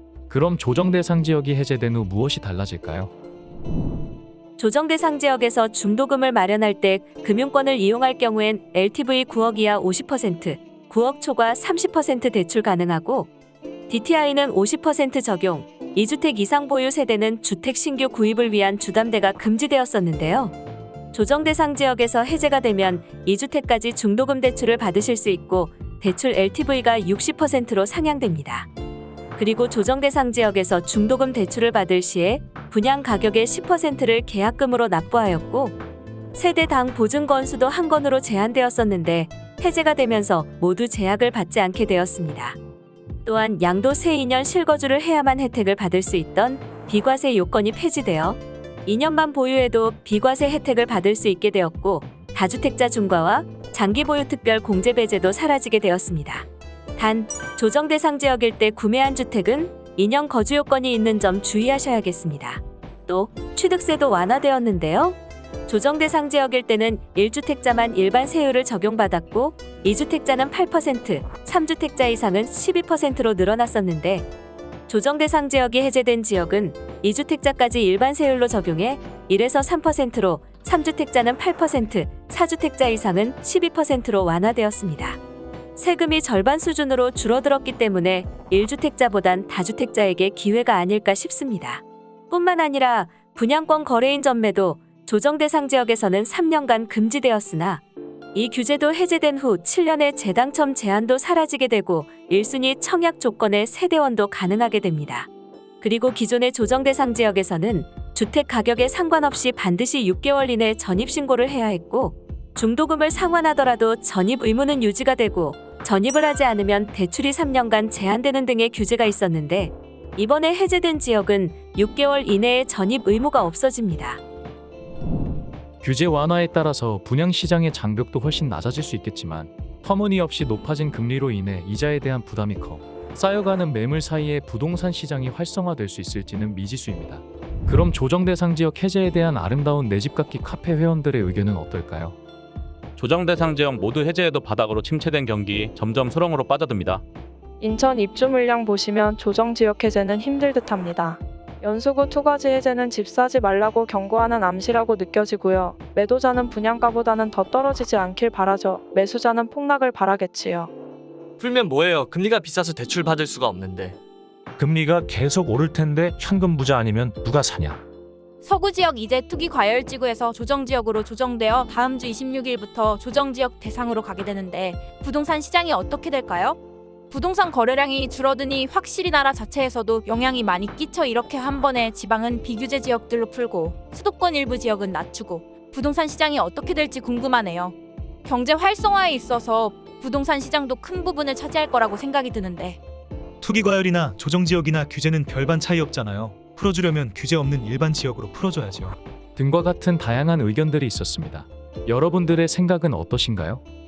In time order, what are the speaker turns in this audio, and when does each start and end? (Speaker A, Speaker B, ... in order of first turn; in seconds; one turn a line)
Speaker A: 0.3-3.1
Speaker B: 4.6-13.3
Speaker B: 13.9-20.5
Speaker B: 21.1-28.7
Speaker B: 29.4-35.8
Speaker B: 36.3-42.6
Speaker B: 43.2-56.5
Speaker B: 57.0-74.3
Speaker B: 74.9-85.2
Speaker B: 85.8-97.8
Speaker B: 98.3-105.3
Speaker B: 105.8-124.2
Speaker A: 125.8-142.2
Speaker C: 143.0-147.0
Speaker D: 147.6-160.7
Speaker E: 161.4-164.0
Speaker F: 164.6-167.8
Speaker G: 168.4-176.6
Speaker G: 177.1-192.8
Speaker H: 193.4-199.0
Speaker A: 199.3-203.6